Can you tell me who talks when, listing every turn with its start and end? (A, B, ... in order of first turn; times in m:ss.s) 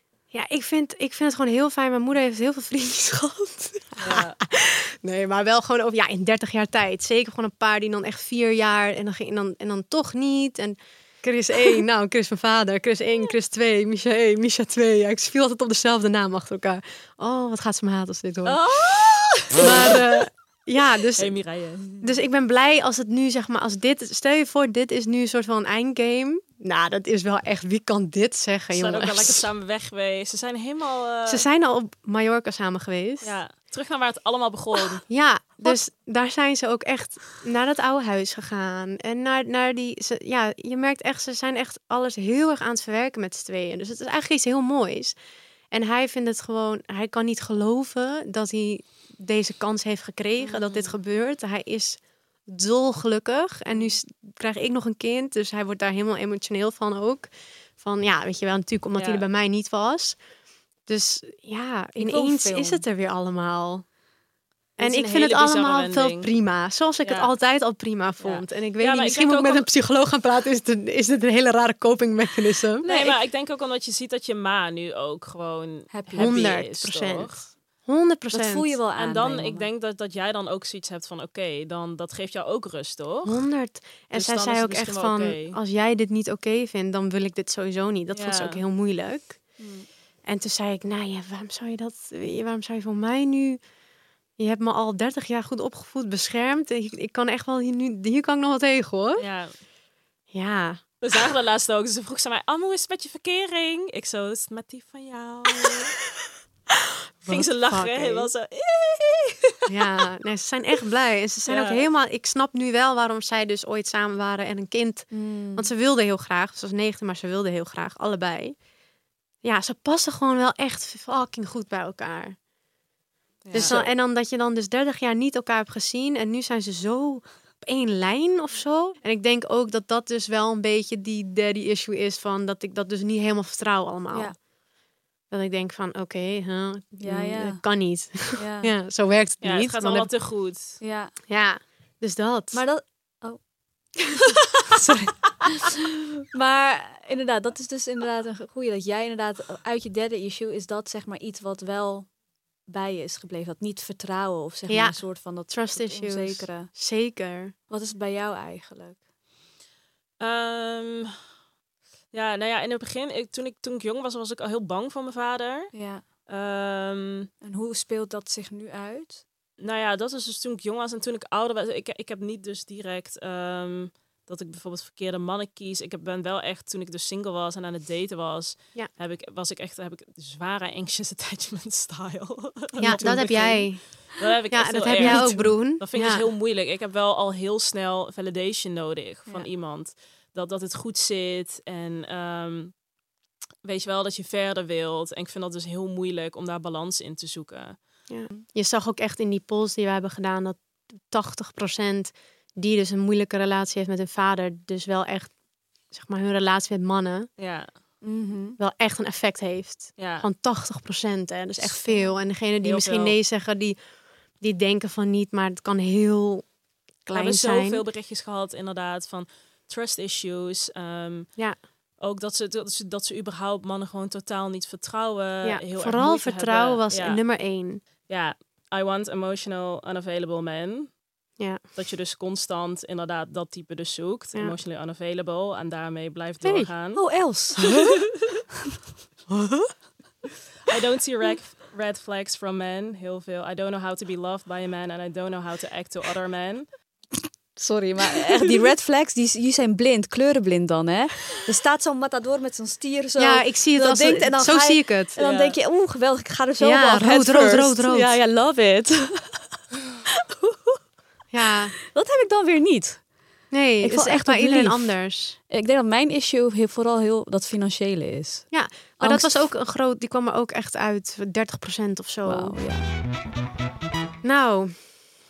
0:00.3-0:18.6 A
0:04.0-0:04.4 B
0:18.4-0:19.8 B
0:19.3-0:29.4 A
0:21.2-0:22.1 B
0:28.7-0:31.4 B
0:31.3-0:33.4 A
0:33.2-0:35.0 B
0:35.1-0:45.2 A
0:45.7-1:00.2 A
0:50.4-0:51.0 B
0:59.0-0:59.2 B
1:00.8-1:03.9 A
1:02.0-1:02.8 C
1:04.8-1:13.2 A
1:04.8-1:06.3 B
1:07.0-1:07.3 B
1:08.2-1:09.6 B
1:12.8-1:17.5 B
1:15.9-1:16.4 C
1:16.2-1:18.8 A
1:18.3-1:19.7 C
1:19.0-1:23.4 B
1:23.2-1:29.6 A
1:24.1-1:25.6 B
1:28.1-1:28.6 B
1:30.2-1:33.6 A
1:34.4-1:39.2 A
1:39.2-1:39.6 B
1:40.3-1:41.0 A
1:41.0-1:45.9 B
1:47.2-1:48.3 A
1:47.3-1:50.0 B
1:49.7-1:58.6 A
1:51.4-1:51.8 B
1:55.1-1:55.7 C
1:59.4-2:02.4 A
2:03.4-2:03.8 B
2:03.5-2:14.5 A
2:03.5-2:03.9 C
2:14.1-2:14.4 C
2:15.3-2:20.1 A
2:17.0-2:18.7 C
2:19.4-2:20.8 B
2:20.8-2:21.1 C
2:21.3-2:22.6 A
2:22.5-2:23.5 C
2:24.8-2:25.7 C
2:26.3-2:36.7 C
2:34.7-2:37.5 A
2:37.7-2:39.0 C
2:40.2-2:41.2 B
2:42.1-2:47.3 B
2:45.7-2:46.1 C
2:47.4-2:49.2 C
2:49.6-3:12.9 B
3:02.8-3:06.3 A
3:02.8-3:03.7 C
3:05.0-3:05.5 C
3:13.6-3:18.1 B
3:18.1-3:27.3 A
3:27.4-3:27.9 B
3:28.0-3:28.6 C
3:28.6-3:37.8 A
3:30.0-3:30.3 B
3:31.6-3:33.2 B
3:37.1-3:47.2 B
3:45.4-3:47.8 A
3:47.8-3:57.7 B
3:56.4-3:56.7 A
3:57.0-3:57.7 C
3:59.3-3:59.7 A
4:00.6-4:06.7 B
4:07.6-4:19.6 C
4:13.2-4:15.2 A
4:15.2-4:15.6 B
4:16.6-4:18.2 A
4:21.3-4:21.8 A
4:21.9-4:29.5 C
4:23.5-4:25.4 A
4:28.5-4:32.6 A
4:32.2-4:32.9 C
4:34.2-4:35.0 A